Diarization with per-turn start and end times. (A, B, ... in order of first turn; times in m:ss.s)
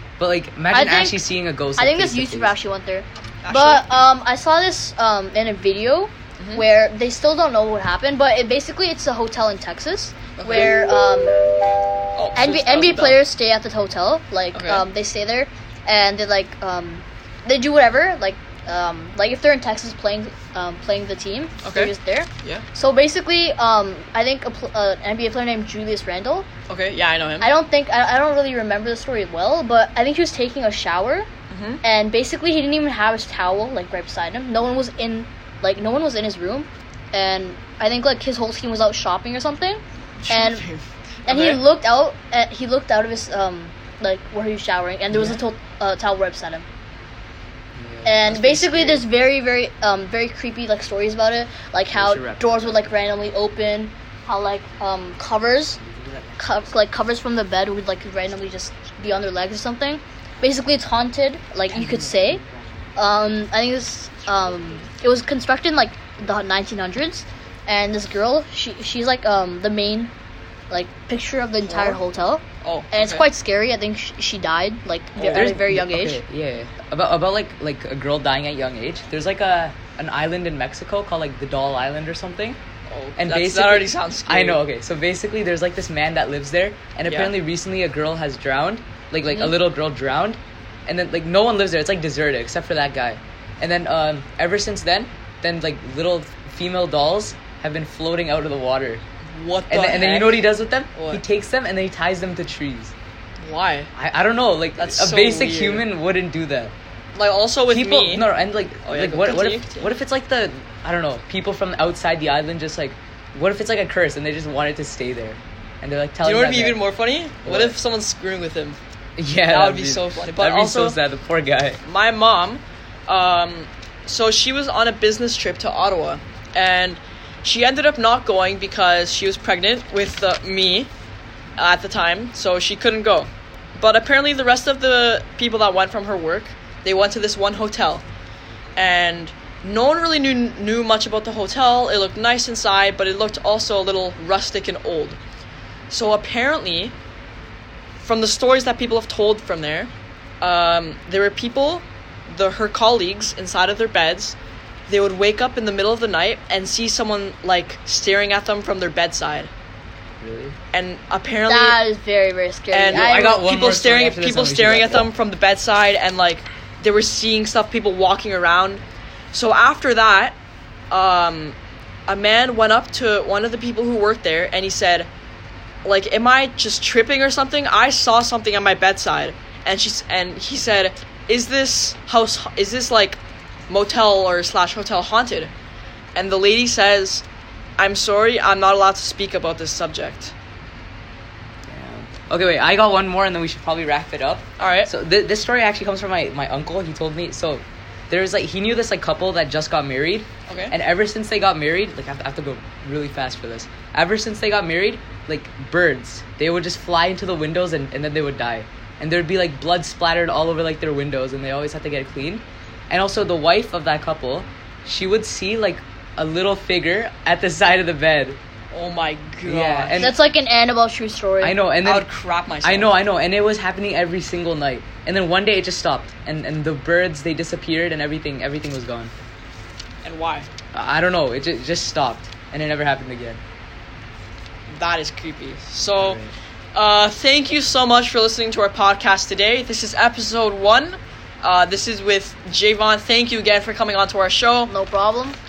0:00.2-0:02.5 A
0:00.7-0:01.2 B
0:01.8-0:11.4 B
0:03.4-0:03.8 C
0:06.4-0:06.6 C
0:10.4-0:10.8 C
0:12.2-0:13.2 C
0:12.4-0:26.5 B
0:14.5-0:14.8 C
0:21.6-0:21.9 C
0:26.7-0:27.5 C
0:27.4-0:31.3 B
0:31.5-0:31.8 C
0:31.8-0:40.6 B
0:40.2-0:41.6 C
0:41.3-0:46.6 B
0:47.8-0:48.4 A
0:48.0-0:55.8 B
0:48.2-0:49.0 C
0:51.9-0:53.0 A
0:55.8-0:56.6 A
0:56.4-1:02.4 B
1:01.7-1:02.6 A
1:03.0-1:10.1 B
1:10.7-1:16.2 B
1:11.6-1:12.0 C
1:12.6-1:13.3 C
1:15.2-1:15.6 C
1:15.3-1:22.6 A
1:22.9-1:24.6 C
1:23.2-1:39.0 A
1:27.1-1:27.3 C
1:29.3-1:29.5 C
1:39.3-1:41.2 C
1:39.7-1:42.9 A
1:43.4-1:43.9 C
1:44.0-1:46.7 A
1:44.8-1:45.8 C
1:47.2-1:48.3 C
1:47.7-1:56.8 A
1:48.8-1:49.9 C
1:56.2-1:58.8 C
1:57.4-1:57.8 A
1:59.2-2:01.8 A
1:59.5-2:01.0 C
2:01.8-2:10.9 C
2:11.6-2:18.0 C
2:18.8-2:25.2 C
2:25.9-2:26.9 C
2:28.0-2:29.9 C
2:30.4-2:34.4 C
2:34.9-2:39.5 C
2:40.2-2:40.6 A
2:40.7-2:41.8 C
2:41.5-2:43.5 B
2:42.7-2:48.8 C
2:42.9-2:45.1 A
2:49.3-2:50.4 C
2:50.9-2:55.1 C
2:55.8-3:05.5 C
3:06.2-3:07.2 C
3:07.8-3:10.3 C
3:11.7-3:38.4 A
3:14.6-3:14.9 C
3:20.5-3:20.7 C
3:38.7-3:40.0 C
3:39.4-3:40.2 A
3:40.0-3:41.6 B
3:41.4-3:42.1 A
3:41.8-3:43.0 C
3:42.6-3:49.1 A
3:50.0-3:50.5 C
3:50.7-3:53.4 A
3:54.7-3:56.2 C
3:56.0-3:56.3 A
3:56.8-4:04.7 C
4:04.7-4:05.4 B